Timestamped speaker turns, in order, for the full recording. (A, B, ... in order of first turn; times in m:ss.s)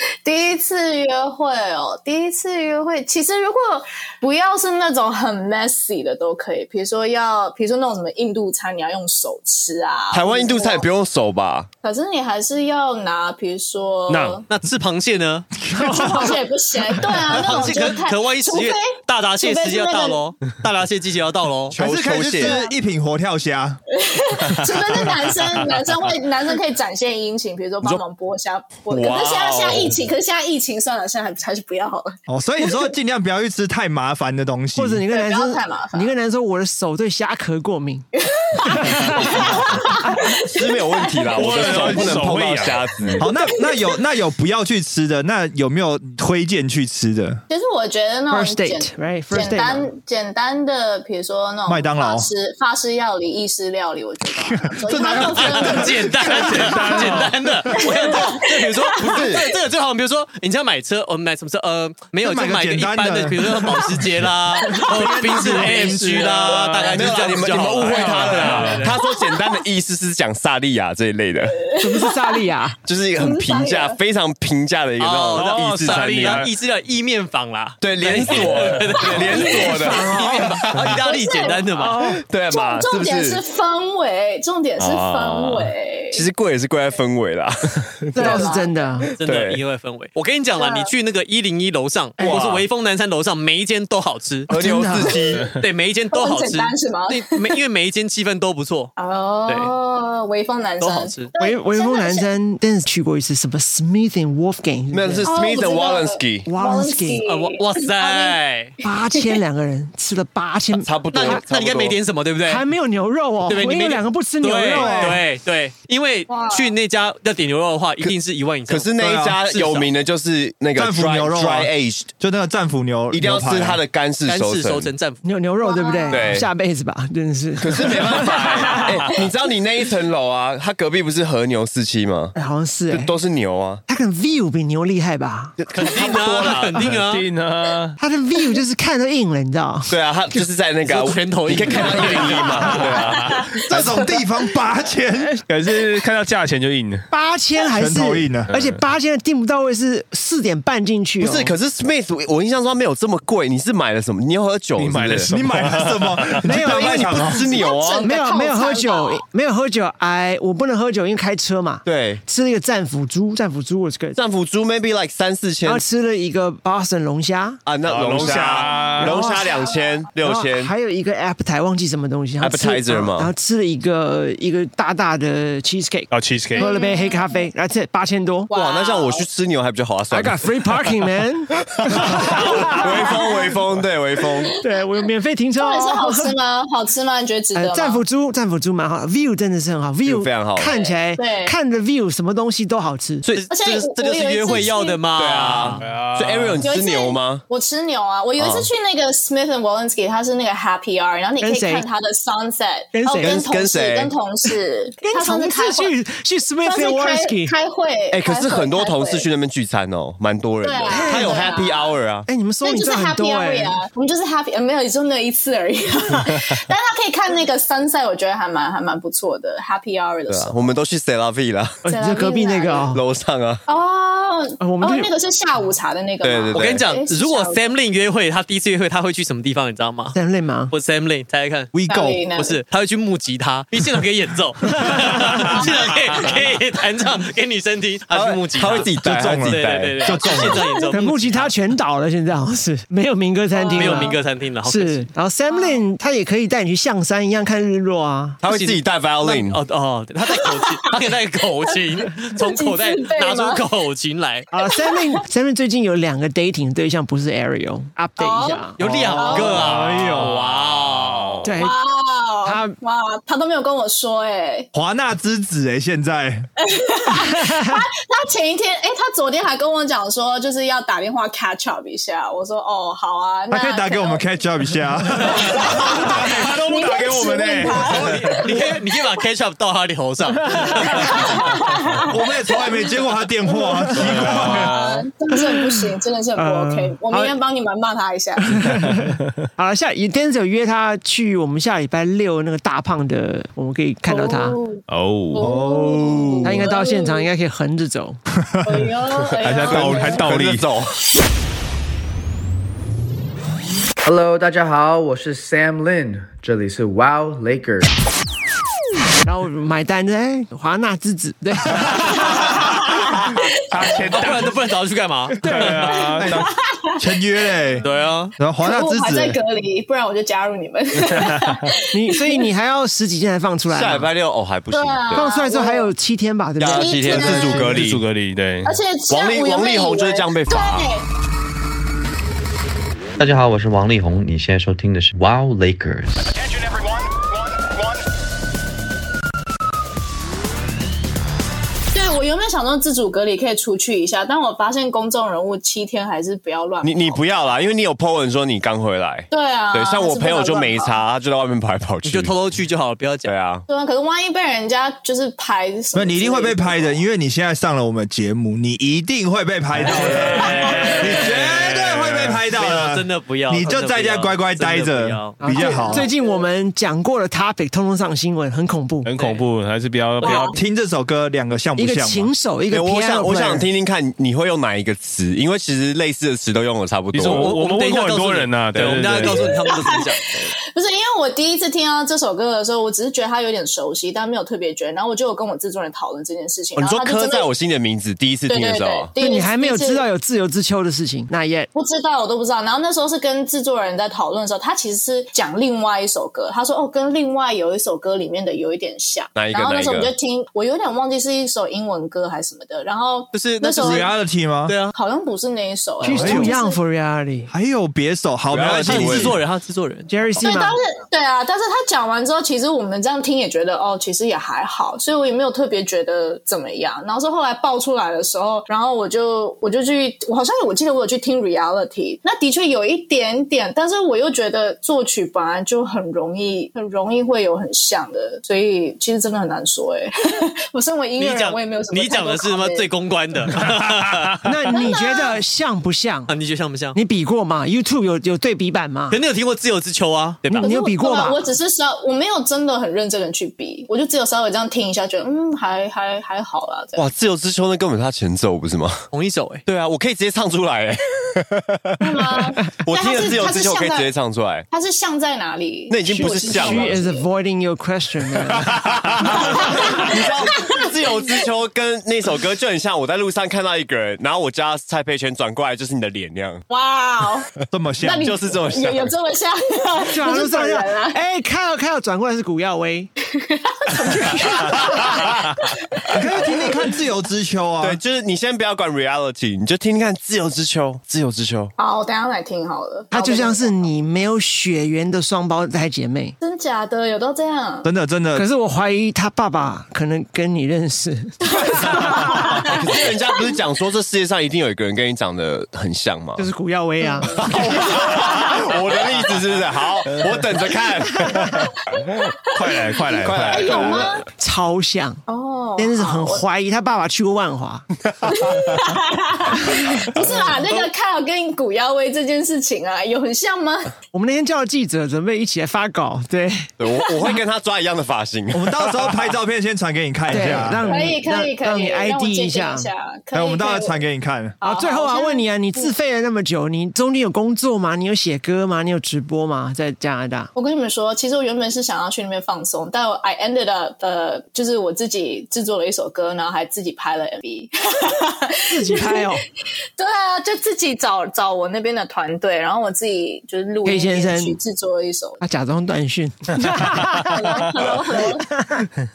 0:00.2-0:10.9 A
0:10.1-0:11.7 B
0:11.8-0:14.4 A
0:14.1-0:14.4 C
0:14.5-0:15.5 D
0:15.7-0:16.1 E
0:15.8-0:16.4 F
0:15.9-0:20.2 A
0:17.3-0:21.8 D
0:21.7-0:22.6 B
0:21.8-0:23.8 E
0:22.4-0:22.7 A
0:23.9-0:32.8 A
0:28.9-0:30.0 B
0:32.3-0:35.0 E
0:34.8-0:38.1 F
0:35.1-0:36.2 A
0:38.2-0:42.1 A
0:38.6-0:40.2 F
0:40.4-0:43.3 B
0:41.3-0:43.2 C
0:43.2-0:47.4 E
0:43.2-0:43.9 A
0:47.5-0:56.7 A
0:48.3-0:49.9 F
0:51.7-0:52.3 E
0:54.4-0:56.3 E
0:55.2-1:09.0 D
0:56.3-0:57.6 C
0:57.8-0:58.2 A
0:59.0-0:59.5 B
1:02.2-1:03.9 E
1:04.9-1:06.3 E
1:05.1-1:08.9 C
1:06.8-1:11.7 B
1:09.0-1:09.6 A
1:11.6-1:12.5 A
1:11.8-1:12.8 F
1:12.8-1:16.4 B
1:13.2-1:14.0 A
1:15.0-1:22.0 D
1:15.3-1:16.5 C
1:17.8-1:20.9 B
1:19.4-1:19.8 A
1:19.4-1:20.5 F
1:21.0-1:21.7 A
1:21.8-1:22.2 F
1:22.3-1:23.4 B
1:22.5-1:26.2 A
1:24.8-1:25.7 C
1:26.1-1:28.4 B
1:28.1-1:29.1 F
1:28.2-1:28.9 A
1:29.2-1:34.5 D
1:29.2-1:29.6 B
1:30.6-1:30.9 A
1:32.2-1:32.4 F
1:32.2-1:32.7 B
1:34.5-1:35.4 B
1:34.5-1:35.2 F
1:35.6-1:38.9 D
1:36.1-1:37.4 A
1:39.0-1:42.3 A
1:39.5-1:39.7 D
1:40.8-1:41.3 D
1:41.4-1:45.3 F
1:44.9-1:46.5 B
1:45.2-1:48.4 A
1:46.5-1:47.2 F
1:47.2-1:48.8 D
1:48.8-1:51.4 F
1:49.1-1:49.4 A
1:50.8-1:52.0 B
1:51.1-1:52.6 D
1:52.4-1:55.2 F
1:53.4-1:59.9 D
1:54.8-1:55.2 E
1:56.3-1:56.7 A
1:58.7-2:02.1 B
1:59.0-1:59.4 E
2:00.8-2:03.8 E
2:03.1-2:04.9 B
2:04.2-2:05.2 D
2:05.2-2:09.1 F
2:05.6-2:06.4 A
2:06.1-2:06.5 B
2:07.6-2:12.4 B
2:12.4-2:13.1 F
2:12.9-2:13.8 B
2:13.9-2:15.6 F
2:15.6-2:16.8 B
2:15.7-2:17.3 D
2:16.4-2:18.0 C
2:18.0-2:20.4 F
2:19.9-2:23.6 B
2:20.8-2:22.8 D
2:22.6-2:23.0 F
2:23.4-2:24.2 A
2:23.7-2:25.4 E
2:25.5-2:27.1 C
2:27.1-2:31.5 F
2:27.8-2:28.5 E
2:28.5-2:28.8 C
2:31.2-2:35.3 B
2:34.8-2:36.4 C
2:35.3-2:37.4 E
2:36.4-2:44.2 F
2:36.5-2:38.1 B
2:37.4-2:39.2 A
2:41.8-2:42.2 B
2:44.2-2:45.8 B
2:45.6-2:47.6 F
2:47.6-2:50.7 B
2:47.8-2:49.2 C
2:49.0-2:58.5 F
2:49.2-2:50.0 A
2:52.4-2:53.3 B
2:56.1-2:56.7 C
2:56.6-2:57.5 A
2:58.5-2:59.2 A
2:58.5-3:00.7 B
3:00.1-3:03.4 F
3:01.7-3:04.6 B
3:02.4-3:03.4 A
3:04.6-3:06.4 F
3:05.6-3:08.0 A
3:07.5-3:13.2 F
3:10.0-3:10.9 B
3:10.6-3:11.6 A
3:13.3-3:15.8 D
3:13.5-3:15.0 A
3:15.1-3:17.4 B
3:15.8-3:16.6 C
3:16.6-3:26.0 A
3:18.4-3:18.7 B
3:21.4-3:21.9 F
3:22.9-3:23.6 F
3:23.2-3:24.1 B
3:25.0-3:27.5 F
3:26.6-3:29.3 A
3:28.1-3:32.3 B
3:30.6-3:32.0 A
3:30.9-3:31.6 F
3:32.3-3:33.8 F
3:32.6-3:40.8 A
3:40.3-3:41.8 B
3:41.8-3:43.0 F
3:41.9-3:43.0 A
3:42.9-3:43.6 B
3:43.7-3:47.6 A
3:44.6-3:45.1 F
3:46.2-3:46.9 B
3:46.5-3:50.2 D
3:50.1-3:50.7 F
3:50.7-3:51.7 D
3:51.7-3:52.2 E
3:51.9-3:52.6 A
3:52.4-4:01.5 D
3:58.1-4:00.3 B
3:59.0-4:00.7 E
4:00.9-4:08.4 F
4:03.5-4:04.2 A
4:03.8-4:05.1 D
4:05.5-4:05.8 A
4:08.4-4:09.6 B
4:08.4-4:14.5 D
4:12.4-4:13.6 A
4:14.5-4:18.8 F
4:14.7-4:15.2 A
4:18.2-4:19.7 A
4:18.8-4:21.5 D
4:18.8-4:20.4 E
4:19.6-4:21.5 C
4:21.4-4:21.8 F
4:21.6-4:24.7 A
4:22.4-4:22.8 F
4:24.7-4:26.5 E
4:26.6-4:34.2 A
4:27.1-4:27.8 F
4:33.5-4:38.1 E
4:35.3-4:38.5 A
4:36.0-4:37.8 C
4:37.8-4:41.2 D
4:41.0-4:42.7 A
4:42.0-4:44.8 E
4:44.0-4:45.1 C
4:44.2-4:48.7 A
4:45.3-4:47.4 F
4:48.4-4:54.6 F
4:54.1-4:54.8 A
4:54.9-4:55.6 C
4:55.3-4:57.3 A
4:55.4-4:56.7 E
4:56.4-4:58.2 F
4:58.5-4:58.9 E
4:58.6-5:00.3 A
4:59.4-5:00.7 C
4:59.6-5:01.0 B
5:04.0-5:07.9 G
5:09.2-5:12.6 F
5:12.4-5:13.1 A
5:13.7-5:14.6 C
5:14.1-5:16.0 D
5:15.4-5:16.5 C
5:15.4-5:15.9 F
5:16.2-5:17.9 E
5:16.3-5:16.9 A
5:17.8-5:18.4 D
5:18.4-5:19.4 E
5:18.6-5:22.5 A
5:21.9-5:24.1 F
5:23.7-5:25.3 B
5:24.7-5:25.9 A
5:25.1-5:27.9 F
5:26.6-5:28.0 B
5:26.6-5:27.7 A
5:27.6-5:28.7 C
5:28.6-5:31.1 A
5:29.1-5:30.9 B
5:33.2-5:36.3 H
5:41.9-5:47.2 A
5:46.8-5:52.4 B
5:49.3-5:51.0 A
5:52.0-5:53.3 D
5:53.2-5:53.7 B
5:53.7-5:57.0 A
5:55.9-6:06.1 E
5:59.8-6:02.4 C
6:00.1-6:01.5 D
6:02.5-6:05.4 D
6:05.4-6:09.1 F
6:05.5-6:06.5 A
6:09.0-6:10.6 C
6:09.1-6:09.4 D
6:10.2-6:10.6 A
6:10.5-6:12.3 E
6:11.8-6:13.7 F
6:12.7-6:17.5 B
6:17.1-6:19.5 C
6:17.2-6:20.5 D
6:19.4-6:19.9 A
6:20.7-6:27.5 A
6:26.8-6:29.1 B
6:28.5-6:30.1 A
6:29.2-6:31.7 F
6:31.7-6:44.1 A
6:39.4-6:40.1 B
6:43.3-6:44.1 D
6:43.8-6:44.7 E
6:44.7-6:44.9 D
6:44.9-6:46.8 A
6:46.0-6:47.5 F
6:46.1-6:46.5 E
6:47.5-6:49.4 E
6:48.5-6:49.4 B
6:48.8-6:50.1 D
6:50.1-6:50.8 F
6:50.4-7:12.9 A
7:11.2-7:14.3 D
7:14.4-7:16.3 F
7:14.7-7:15.4 A
7:16.3-7:17.0 D
7:17.0-7:19.2 F
7:19.1-7:20.7 D
7:20.5-7:21.5 F
7:20.6-7:27.0 A
7:27.0-7:29.0 B
7:29.1-7:29.6 D
7:29.7-7:34.7 B
7:32.0-7:34.1 A
7:34.7-7:37.3 A
7:35.9-7:37.0 B
7:36.1-7:38.8 F
7:38.5-7:46.6 B
7:39.3-7:41.3 A
7:46.7-7:47.5 A
7:47.7-7:48.4 E
7:48.0-7:51.2 A
7:48.2-7:49.1 B
7:50.1-7:53.1 F
7:53.3-7:56.8 A
7:53.9-7:55.2 F
7:56.1-7:58.0 E
7:57.8-8:01.7 B
8:01.8-8:03.9 A
8:03.1-8:06.4 F
8:06.4-8:07.9 A
8:07.8-8:08.5 E
8:08.4-8:12.6 F
8:11.5-8:13.0 A
8:12.6-8:16.5 B
8:16.4-8:17.8 F
8:17.0-8:17.4 A
8:17.4-8:21.7 B
8:22.5-8:24.0 C
8:23.2-8:24.1 B
8:23.5-8:24.2 A
8:23.8-8:25.2 F
8:25.3-8:26.4 A
8:25.8-8:27.8 F
8:28.3-8:33.9 A
8:34.1-8:36.7 F
8:36.8-8:39.3 B
8:38.5-8:41.0 E
8:40.3-8:42.9 F
8:40.8-8:44.0 A
8:43.3-8:44.6 E
8:44.6-8:46.0 A
8:44.6-8:50.5 F
8:50.6-8:59.3 A
8:58.7-8:59.4 F
9:00.0-9:05.4 A
9:03.8-9:04.6 F
9:05.4-9:08.9 F
9:07.1-9:08.5 A